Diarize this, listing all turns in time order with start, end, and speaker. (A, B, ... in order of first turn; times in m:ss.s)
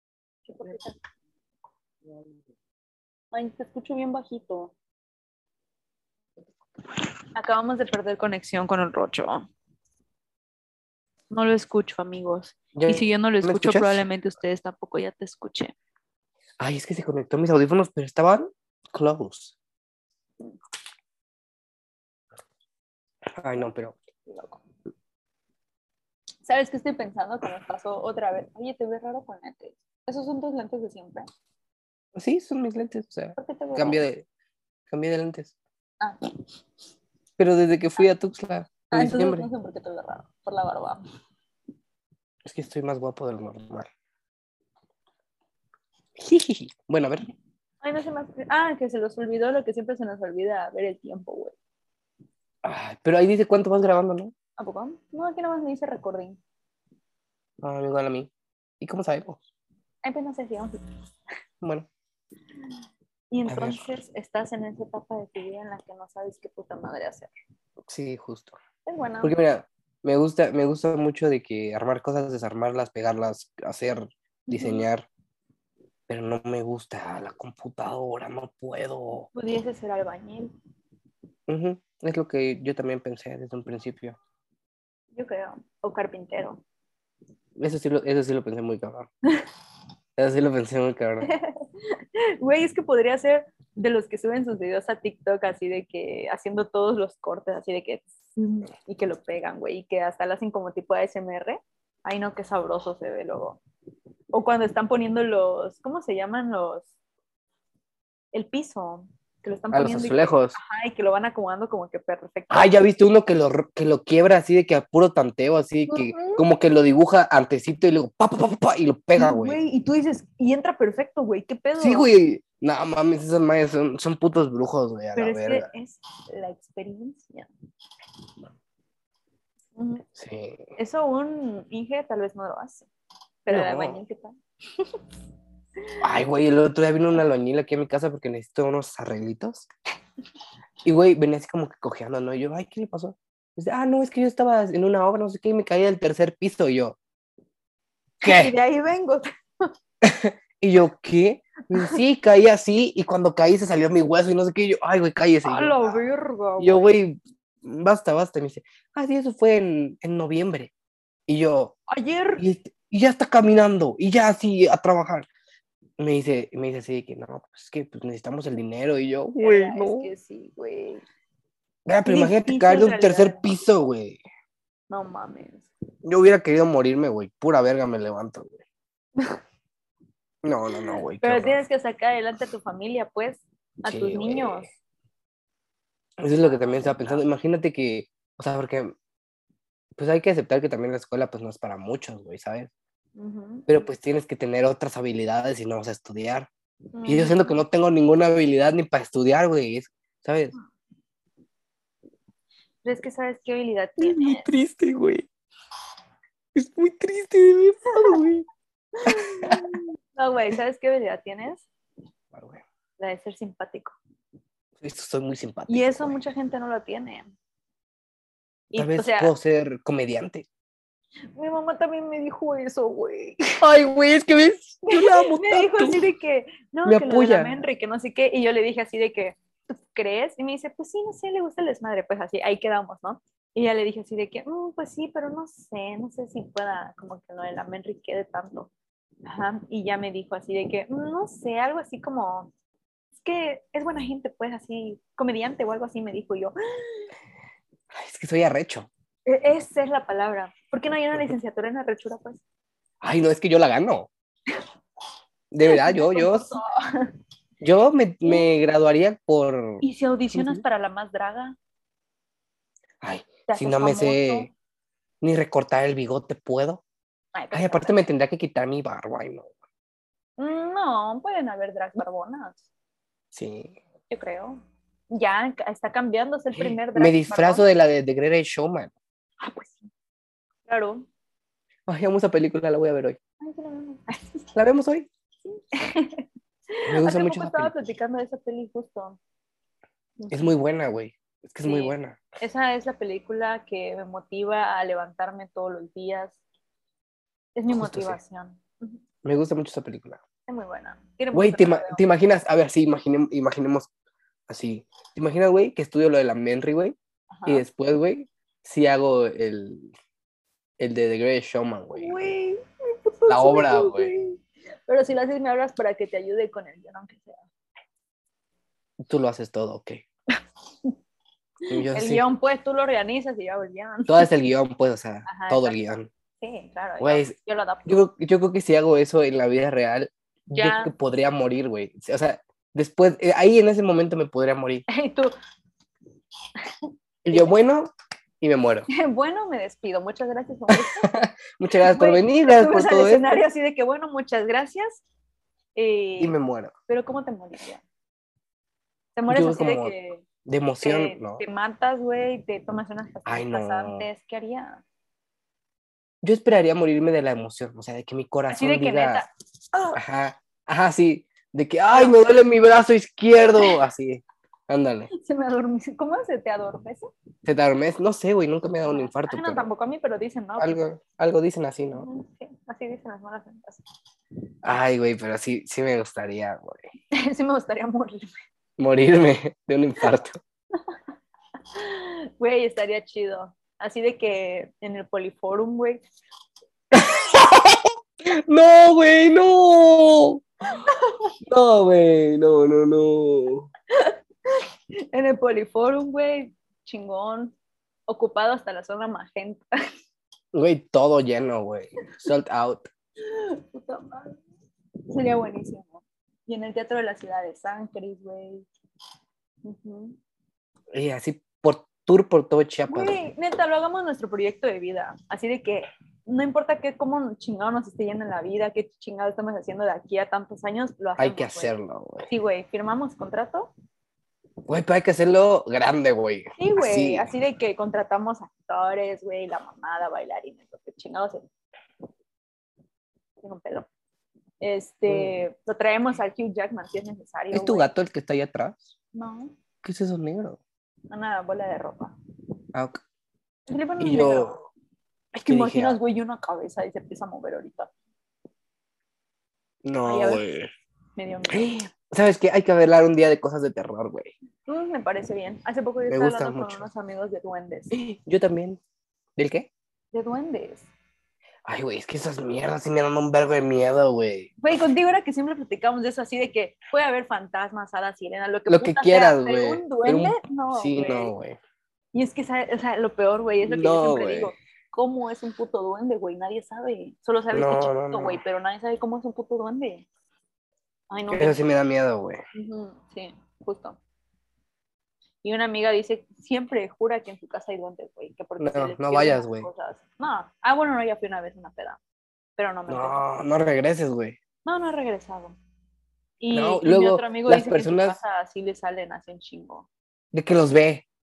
0:00.5-0:01.0 A
0:03.3-0:04.7 A
0:07.3-0:09.5 A
0:11.3-0:15.7 A
0:12.7-0:14.0 B
0:16.6-0:19.5 B
0:23.4-0:24.0 B
0:24.2-0:24.6 A
0:26.4-0:31.3 A
0:32.1-0:34.2 B
0:33.4-0:34.0 A
0:34.9-0:35.5 B
0:37.4-0:39.5 B
0:38.9-0:41.0 A
0:42.4-0:43.9 B
0:46.2-0:47.2 B
0:47.8-0:51.5 A
0:52.6-0:54.3 B
0:54.6-0:56.4 A
0:57.6-0:59.4 B
1:00.0-1:00.8 A
1:01.6-1:01.9 B
1:03.3-1:07.3 A
1:03.5-1:03.8 B
1:07.9-1:08.6 B
1:08.8-1:09.3 A
1:09.2-1:15.0 B
1:14.5-1:14.8 A
1:16.1-1:19.3 B
1:19.3-1:20.5 A
1:21.5-1:24.2 B
1:25.1-1:26.6 A
1:27.6-1:29.1 B
1:30.2-1:31.3 B
1:31.2-1:43.6 A
1:44.3-1:46.9 A
1:48.3-1:52.7 A
1:49.7-1:50.6 B
1:52.5-1:59.6 B
1:55.9-1:56.4 A
1:59.2-2:02.1 A
2:01.8-2:05.6 B
2:05.2-2:07.5 A
2:09.8-2:10.0 A
2:10.2-2:10.6 B
2:10.8-2:12.9 A
2:13.4-2:15.0 A
2:13.5-2:14.0 B
2:16.0-2:19.7 B
2:20.8-2:27.0 B
2:28.2-2:29.7 A
2:28.2-2:28.5 B
2:30.0-2:36.0 B
2:31.7-2:32.0 A
2:35.4-2:36.9 A
2:36.6-2:40.7 B
2:41.3-2:41.7 B
2:41.9-2:42.4 A
2:42.4-2:45.3 B
2:46.0-2:50.1 B
2:49.4-2:51.0 A
2:51.9-2:54.2 B
2:52.0-2:53.5 A
2:54.9-2:55.7 A
2:56.0-2:58.6 B
3:00.4-3:01.6 B
3:00.7-3:04.7 A
3:03.8-3:04.7 B
3:06.2-3:08.9 B
3:06.4-3:07.2 A
3:10.0-3:12.7 B
3:13.2-3:13.8 A
3:13.7-3:16.5 B
3:16.9-3:17.6 A
3:17.0-3:20.5 B
3:22.8-3:24.5 A
3:24.0-3:25.3 B
3:26.5-3:28.4 B
3:29.0-3:31.7 A
3:29.0-3:29.6 B
3:32.3-3:32.6 B
3:33.0-3:34.0 A
3:34.8-3:36.1 B
3:35.7-3:37.3 A
3:38.7-3:39.3 A
3:38.8-3:40.4 B
3:41.3-3:43.6 A
3:43.6-3:46.0 B
3:44.8-3:58.7 A
3:46.8-3:47.6 B
3:59.2-4:02.5 A
4:03.2-4:07.1 A
4:07.9-4:08.9 B
4:09.3-4:12.4 A
4:13.0-4:14.1 B
4:15.5-4:16.5 B
4:15.6-4:17.1 A
4:17.6-4:20.6 B
4:19.8-4:21.6 A
4:23.0-4:24.5 B
4:23.5-4:24.5 A
4:25.2-4:26.8 B
4:27.3-4:28.0 A
4:27.5-4:29.5 B
4:30.4-4:32.6 A
4:33.3-4:33.8 B
4:34.1-4:34.6 A
4:35.1-4:37.6 A
4:36.5-4:38.9 B
4:39.4-4:39.9 A
4:40.7-4:41.1 A
4:41.9-4:43.2 B
4:43.4-4:44.5 A
4:44.5-4:45.1 B
4:45.4-4:49.2 A
4:46.9-4:47.7 B
4:50.2-4:50.5 A
4:50.3-4:52.2 B
4:51.6-4:56.4 A
4:57.6-4:59.0 A
4:57.7-4:58.2 B
4:59.2-5:00.2 B
5:00.5-5:02.0 A
5:01.3-5:03.9 B
5:04.5-5:06.9 B
5:07.3-5:07.6 A
5:07.5-5:09.9 B
5:10.8-5:12.2 B
5:11.9-5:17.4 A
5:13.3-5:14.1 B
5:19.0-5:20.0 B
5:21.7-5:22.2 B
5:21.7-5:24.3 A
5:24.1-5:26.1 B
5:25.3-5:28.0 A
5:27.0-5:27.3 B
5:27.8-5:34.8 B
5:30.5-5:30.9 A
5:34.9-5:35.3 A
5:37.2-5:37.9 B
5:37.3-5:37.6 A
5:38.4-5:38.9 B
5:38.9-5:41.1 A
5:40.7-5:43.4 B
5:41.8-5:45.0 A
5:45.8-5:46.4 A
5:46.2-5:46.7 B
5:46.9-5:47.8 A
5:49.2-5:50.2 A
5:49.3-5:49.9 B
5:50.4-5:51.4 B
5:50.8-5:54.8 A
5:53.2-5:54.1 B
5:56.2-5:59.2 B
5:58.5-6:00.0 A
5:59.9-6:05.1 B
6:01.9-6:02.2 A
6:05.1-6:07.1 A
6:07.4-6:09.7 B
6:08.9-6:10.8 A
6:10.6-6:12.1 B
6:11.9-6:13.8 A
6:14.6-6:16.9 B
6:17.1-6:18.3 A
6:18.8-6:20.4 B
6:21.7-6:26.0 A
6:26.9-6:30.8 B
6:30.8-6:31.2 A
6:31.4-6:33.7 B
6:33.9-6:37.5 A
6:38.1-6:39.6 A
6:40.5-6:42.9 B
6:43.2-6:44.4 A
6:45.1-6:48.7 A
6:49.6-6:50.2 A
6:50.9-6:53.2 B
6:52.9-7:01.7 A
7:01.2-7:02.3 B
7:02.3-7:03.7 A
7:04.7-7:07.3 B
7:06.6-7:11.4 A
7:13.4-7:13.9 A
7:14.6-7:17.9 A
7:17.5-7:18.9 B
7:19.1-7:19.6 A
7:19.8-7:20.6 B
7:21.1-7:22.1 A
7:22.7-7:23.0 B
7:23.7-7:24.6 A
7:24.0-7:24.6 B
7:25.4-7:27.9 A
7:25.4-7:26.0 B
7:29.8-7:30.7 B
7:30.0-7:30.4 A
7:31.2-7:31.7 A
7:31.5-7:34.3 B
7:34.7-7:37.9 A
7:36.1-7:36.9 B
7:37.9-7:38.8 B
7:39.4-7:39.7 B
7:40.1-7:40.9 A
7:41.6-7:44.5 B
7:44.6-7:51.3 A
7:48.7-7:51.6 B
7:52.1-8:00.0 A
7:53.6-7:54.5 B
7:57.5-7:58.4 B
8:01.1-8:01.6 A
8:01.3-8:02.4 B
8:02.5-8:04.0 A
8:05.4-8:12.0 A
8:08.6-8:09.7 B
8:12.6-8:13.2 A
8:12.9-8:14.4 B
8:14.6-8:15.6 A
8:16.4-8:19.9 A
8:16.5-8:18.2 B
8:20.3-8:21.0 B